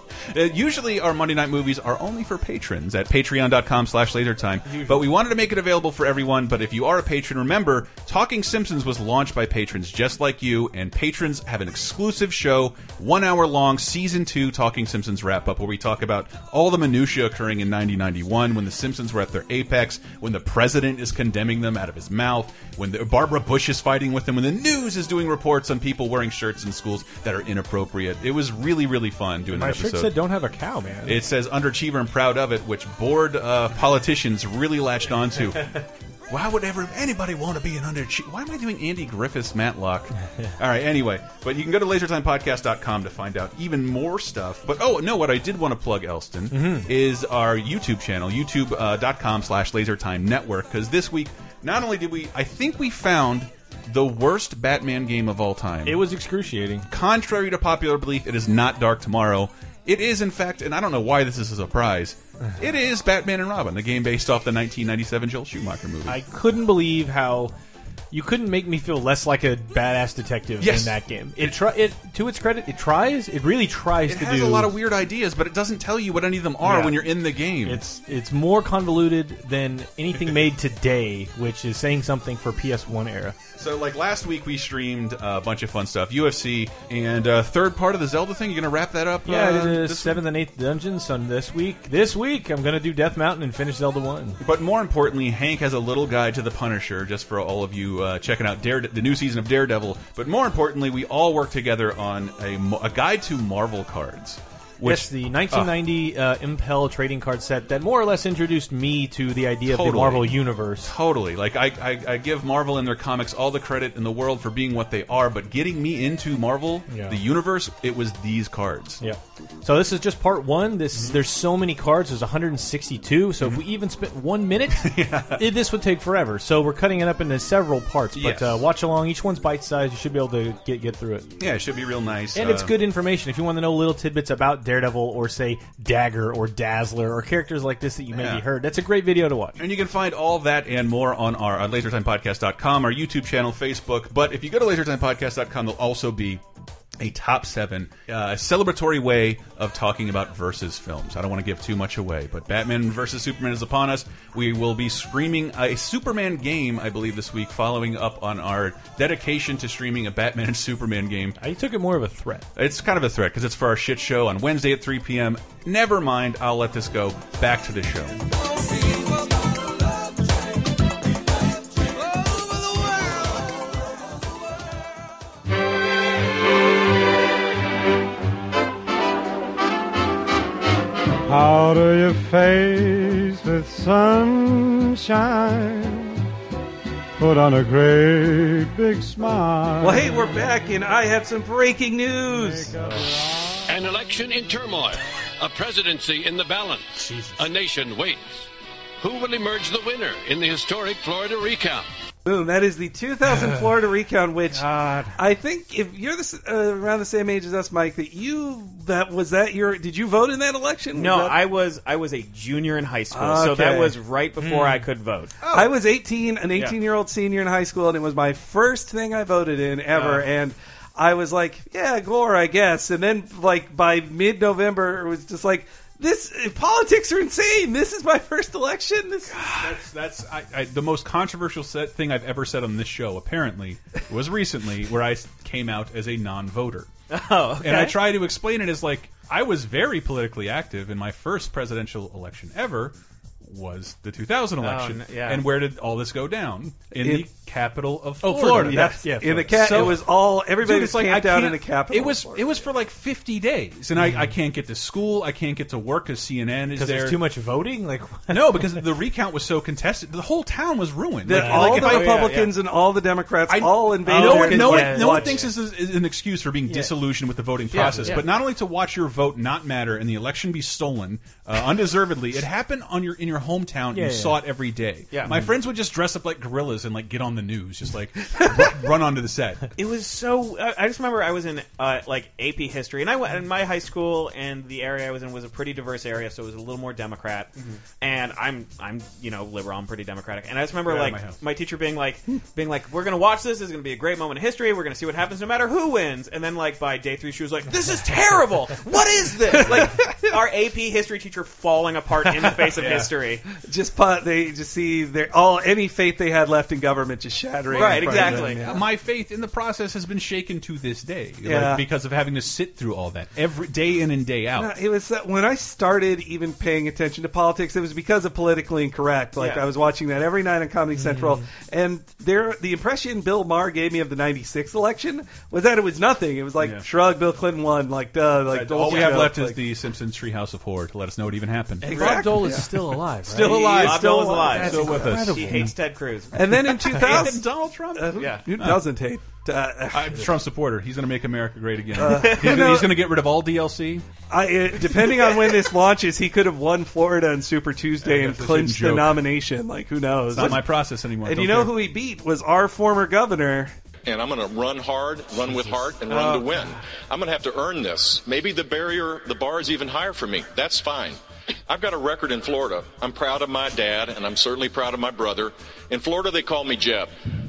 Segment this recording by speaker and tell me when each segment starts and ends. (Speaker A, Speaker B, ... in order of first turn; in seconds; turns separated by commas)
Speaker A: 0.3-30.2, Speaker B: 4.7-5.1, Speaker B: 29.5-31.2, Speaker A: 31.1-56.0, Speaker B: 46.5-46.9, Speaker B: 55.9-56.9, Speaker A: 56.9-66.2, Speaker B: 66.1-67.5, Speaker B: 68.1-74.7, Speaker A: 70.6-71.6, Speaker A: 74.1-77.8, Speaker B: 76.6-77.1, Speaker B: 77.7-83.4, Speaker A: 83.6-90.2, Speaker B: 89.2-94.4, Speaker A: 94.4-105.8, Speaker B: 104.8-110.9, Speaker A: 109.7-119.0, Speaker B: 116.9-117.2, Speaker B: 119.0-131.3, Speaker A: 120.9-121.2, Speaker A: 124.7-125.4, Speaker A: 128.1-128.7, Speaker A: 131.4-132.7, Speaker B: 132.3-139.6, Speaker A: 138.1-138.5, Speaker A: 139.6-146.4, Speaker A: 147.0-161.4, Speaker B: 161.4-162.5, Speaker A: 162.6-168.2, Speaker C: 181.3-186.1, Speaker C: 187.2-190.5, Speaker D: 189.8-192.7, Speaker C: 192.3-193.1, Speaker E: 193.7-198.4, Speaker A: 197.0-197.4, Speaker E: 199.0-201.9, Speaker D: 202.2-211.4, Speaker A: 204.5-205.2, Speaker F: 210.9-215.5, Speaker D: 213.1-214.0, Speaker A: 214.4-214.8, Speaker D: 215.5-229.4, Speaker F: 219.9-220.2, Speaker A: 229.4-236.9, Speaker F: 237.1-238.0, Speaker A: 237.6-257.2, Speaker F: 244.6-245.4, Speaker D: 246.9-247.3, Speaker B: 248.2-249.8, Speaker D: 248.5-252.7, Speaker B: 256.8-258.9, Speaker A: 258.3-262.3, Speaker D: 261.2-265.4, Speaker B: 261.4-261.8, Speaker F: 261.6-262.5, Speaker A: 263.5-279.7, Speaker B: 264.1-265.5, Speaker B: 267.7-268.2, Speaker B: 273.9-274.4, Speaker F: 279.8-303.4, Speaker A: 290.9-291.4, Speaker D: 299.6-300.3, Speaker A: 302.8-303.1, Speaker D: 303.6-308.9, Speaker F: 307.7-308.6, Speaker A: 308.0-314.7, Speaker D: 311.4-311.9, Speaker D: 314.6-329.6, Speaker F: 319.4-319.6, Speaker B: 321.0-321.4, Speaker A: 326.6-326.9, Speaker A: 328.5-335.7, Speaker D: 331.9-332.7, Speaker B: 331.9-335.7, Speaker D: 333.3-334.9, Speaker F: 333.4-336.3, Speaker D: 336.3-340.3, Speaker A: 336.8-338.8, Speaker F: 338.2-338.4, Speaker A: 339.9-344.1, Speaker D: 341.9-342.9, Speaker F: 342.1-342.7, Speaker D: 344.3-353.8, Speaker A: 348.0-349.2, Speaker A: 350.3-351.8, Speaker G: 354.1-367.1, Speaker A: 355.3-356.3, Speaker D: 356.1-356.6